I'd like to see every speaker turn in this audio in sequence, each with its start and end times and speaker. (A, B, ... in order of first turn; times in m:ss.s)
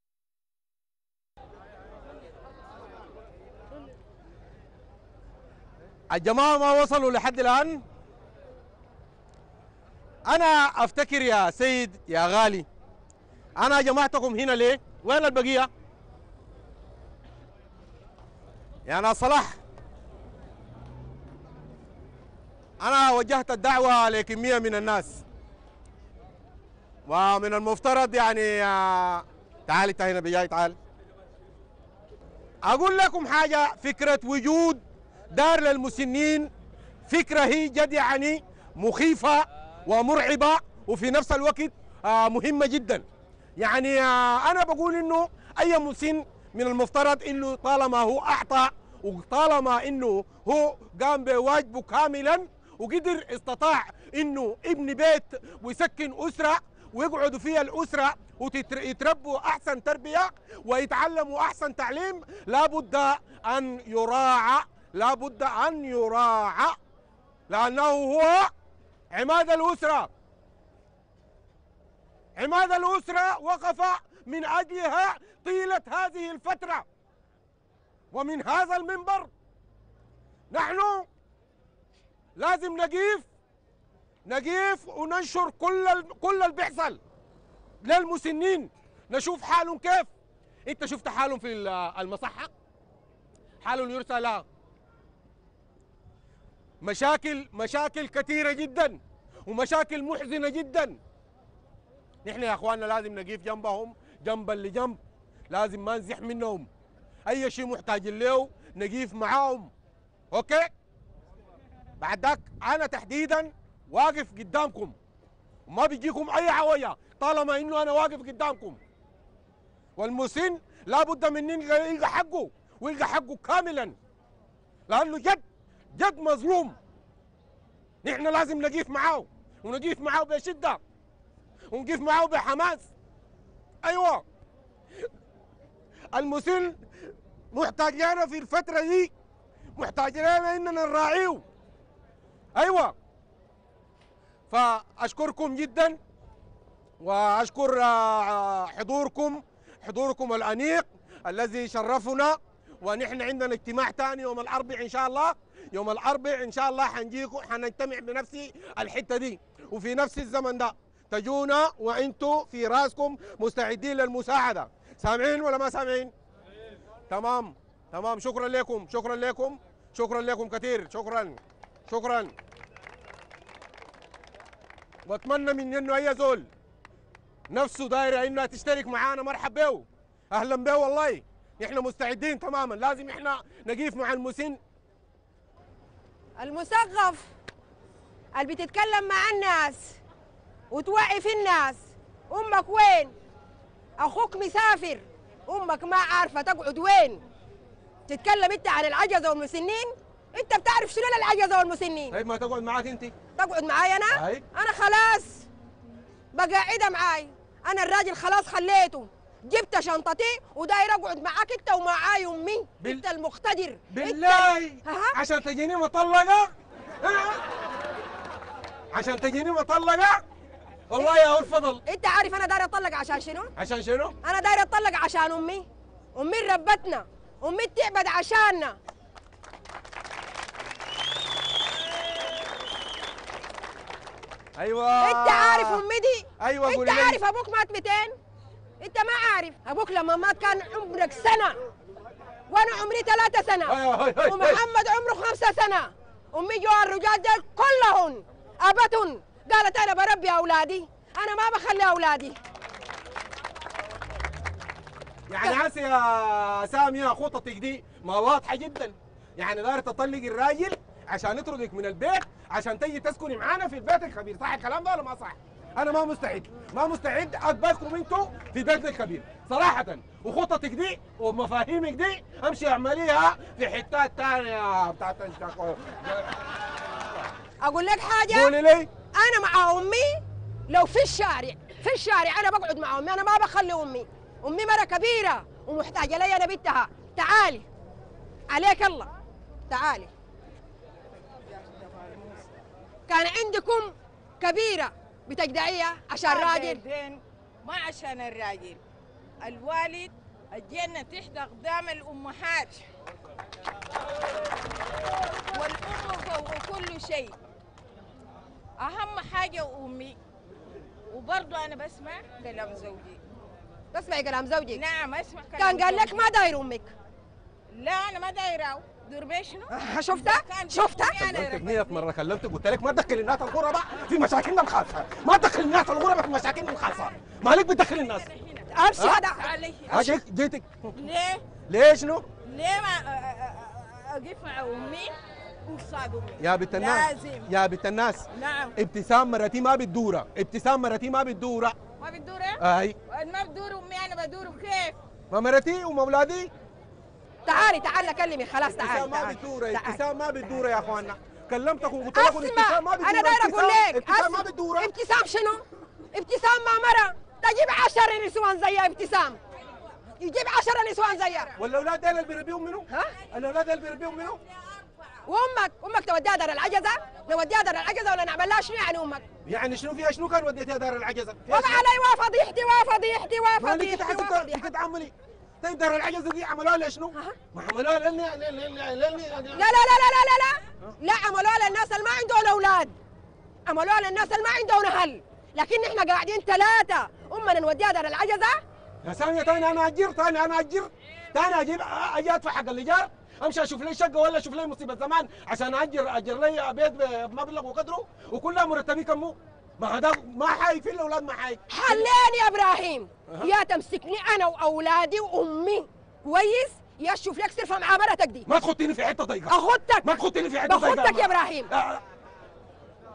0:06.1-0:07.8 A
0:10.3-0:12.6 A
0:13.6-0:15.7 A
0:18.8-0:19.6 A
0:22.8-0:25.2 A
0:27.1-0:30.8 A
0:32.6-0:36.5 A
0:37.1-0:43.0 A
0:43.6-1:06.8 A
1:07.5-1:08.5 A
1:09.1-1:10.1 A
1:12.4-1:16.8 A
1:18.1-1:19.3 A
1:20.5-1:21.1 A
1:22.4-1:23.3 A
1:24.2-1:27.0 A
1:27.8-1:30.1 A
1:30.7-1:32.5 A
1:33.6-1:34.4 A
1:36.8-1:41.0 A
1:42.2-1:45.0 A
1:45.5-1:46.7 A
1:47.3-1:49.7 A
1:50.3-1:50.7 A
1:52.0-1:54.9 A
1:55.7-1:58.8 A
2:00.0-2:04.0 A
2:04.9-2:05.4 A
2:05.9-2:06.8 A
2:08.0-2:10.8 A
2:11.7-2:12.9 A
2:13.8-2:14.2 A
2:16.1-2:16.8 A
2:17.5-2:19.1 A
2:19.8-2:21.4 A
2:22.6-2:22.9 A
2:24.5-2:26.0 A
2:27.0-2:46.1 A
2:47.1-2:52.3 A
2:55.0-2:56.5 A
2:57.5-3:04.6 A
3:06.4-3:07.3 B
3:08.4-3:10.0 B
3:10.7-3:11.8 B
3:12.3-3:13.1 B
3:14.0-3:17.2 B
3:18.1-3:22.2 B
3:22.1-3:23.1 A
3:23.4-3:25.4 B
3:24.1-3:24.4 A
3:26.3-3:35.2 B
3:33.9-3:36.5 A
3:37.0-3:37.4 A
3:38.9-3:40.2 A
3:40.9-3:41.8 A
3:41.8-3:43.5 B
3:43.6-3:44.1 A
3:44.2-3:45.6 B
3:46.2-3:48.8 B
3:54.6-3:55.8 A
3:55.0-3:58.1 B
3:56.4-3:57.2 A
3:58.8-4:01.5 B
4:02.5-4:12.4 B
4:03.7-4:04.6 A
4:15.3-4:36.3 A
4:37.6-4:38.5 B
4:38.3-4:38.9 A
4:39.2-4:40.2 B
4:40.7-4:47.6 B
4:48.5-4:49.1 B
4:49.7-4:50.1 B
4:51.6-4:52.3 C
4:53.1-4:56.8 B
4:56.2-4:58.8 C
4:59.4-5:02.8 C
5:05.5-5:07.4 C
5:08.8-5:10.2 C
5:11.1-5:13.2 C
5:13.9-5:14.8 B
5:14.7-5:16.3 C
5:15.6-5:16.9 B
5:17.7-5:22.0 C
5:19.7-5:21.2 B
5:21.1-5:28.2 A
5:28.7-5:29.4 B
5:29.4-5:30.1 C
5:29.9-5:30.8 A
5:31.0-5:31.4 C
5:31.7-5:32.3 A
5:32.4-5:35.1 C
5:35.7-5:37.5 C
5:36.4-5:41.8 A
5:38.3-5:38.7 C
5:42.0-5:45.0 C
5:42.6-5:43.0 A
5:45.3-5:46.5 A
5:47.5-5:50.0 B
5:48.8-5:54.9 A
5:52.1-5:55.6 B
5:56.1-5:59.4 B
6:00.2-6:01.5 B
6:01.6-6:04.4 A
6:05.3-6:09.2 B
6:09.4-6:11.8 A
6:11.5-6:14.6 B
6:13.6-6:19.7 A
6:19.5-6:22.9 B
6:23.7-6:28.5 B
6:29.0-6:42.1 A
6:41.7-6:48.4 B
6:48.5-6:52.0 A
6:49.5-6:50.1 B
6:50.6-6:51.7 B